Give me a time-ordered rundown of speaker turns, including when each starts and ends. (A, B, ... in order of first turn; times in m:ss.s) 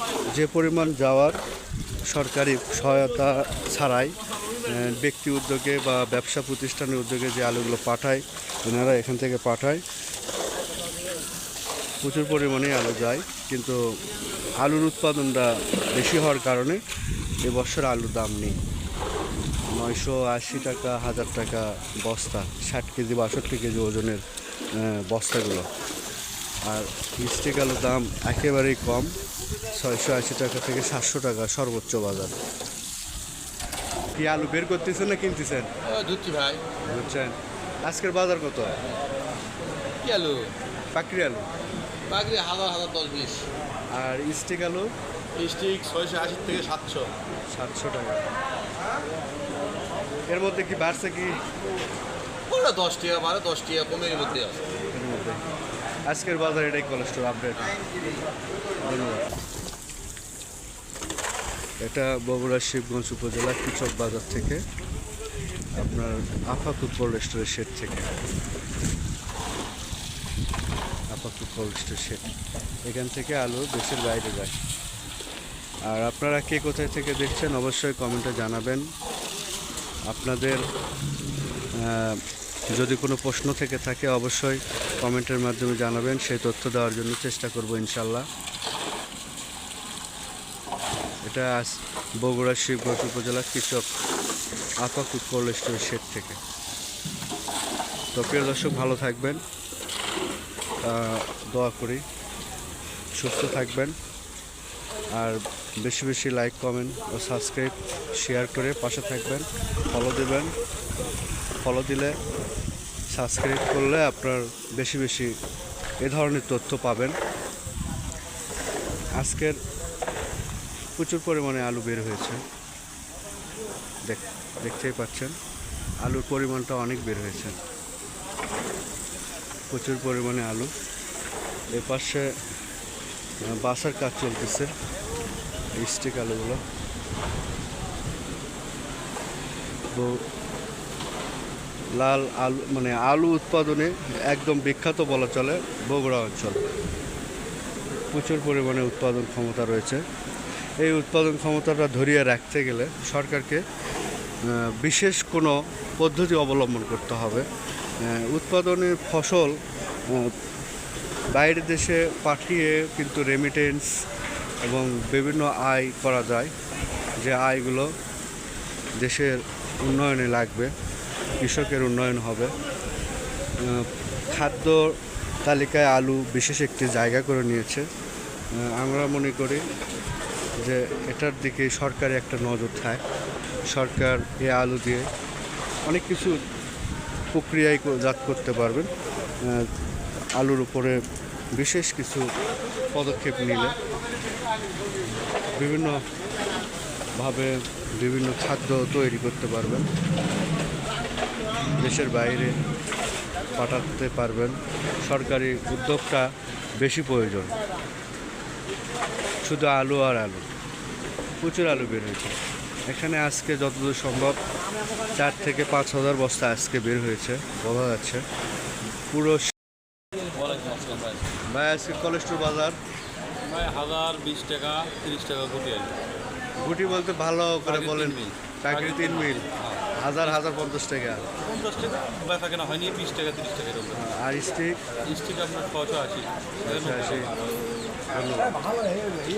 0:00.3-0:01.4 A
0:02.0-0:09.8 A
0:12.0-0:13.8 A
0:14.6-0:16.8 A
0:17.4-0:18.6 A
0:19.7-0:24.2 A
0:24.7-0:25.7 A
0:26.6-0:29.1 A
0:29.7-0:32.4 A
0:34.1-0:35.7 A
0:35.8-0:36.6 B
0:36.9-0:38.8 A
0:40.0-0:40.5 B
0:40.9-0:41.5 A
0:42.1-0:43.4 B
0:43.9-0:44.9 A
0:45.4-0:47.1 B
0:47.5-0:48.3 A
0:50.3-0:51.4 A
0:52.5-0:54.6 B
0:54.9-0:55.4 A
0:56.1-0:57.9 A
0:58.8-0:59.3 A
1:01.8-1:04.6 A
1:05.8-1:08.1 A
1:11.1-1:12.3 A
1:12.8-1:14.6 A
1:15.8-1:18.8 A
1:20.1-1:20.6 A
1:21.7-1:22.2 A
1:22.7-1:28.3 A
1:31.2-1:33.8 A
1:34.8-1:36.4 A
1:38.1-1:39.4 A
1:40.8-1:42.0 A
1:43.1-1:43.9 A
1:45.1-1:50.5 A
1:51.6-1:52.1 A
1:53.1-1:55.3 A
1:56.0-1:57.2 A
1:59.1-1:59.6 A
2:01.0-2:02.4 A
2:04.1-2:05.3 A
2:06.0-2:07.6 A
2:09.7-2:10.7 A
2:11.7-2:12.3 A
2:13.4-2:14.7 A
2:15.8-2:16.6 A
2:19.9-2:20.2 A
2:21.9-2:26.7 A
2:28.1-2:30.0 A
2:30.8-2:33.6 A
2:34.4-2:37.5 A
2:38.0-2:40.3 A
2:41.3-2:43.9 A
2:44.6-2:46.5 A
2:47.2-2:47.9 A
2:49.0-2:50.7 A
2:51.4-2:52.6 A
2:53.6-2:57.9 A
2:58.5-2:59.6 A
3:00.6-3:03.0 A
3:03.7-3:05.1 A
3:05.8-3:06.4 A
3:07.3-3:08.9 A
3:09.4-3:09.7 A
3:10.3-3:11.0 A
3:11.5-3:12.2 A
3:12.9-3:13.8 A
3:15.5-3:16.0 A
3:17.2-3:19.9 A
3:21.8-3:22.6 A
3:23.5-3:27.5 A
3:29.4-3:30.4 A
3:31.4-3:32.4 A
3:32.9-3:34.4 A
3:35.1-3:38.2 A
3:39.1-3:39.5 A
3:40.2-3:41.3 C
3:41.5-3:42.8 A
3:43.4-3:45.9 C
3:46.6-3:51.3 A
3:47.6-3:50.3 C
3:51.4-3:54.1 C
3:53.9-3:54.8 A
3:55.0-3:57.7 C
3:56.6-3:57.3 A
3:58.1-3:58.6 A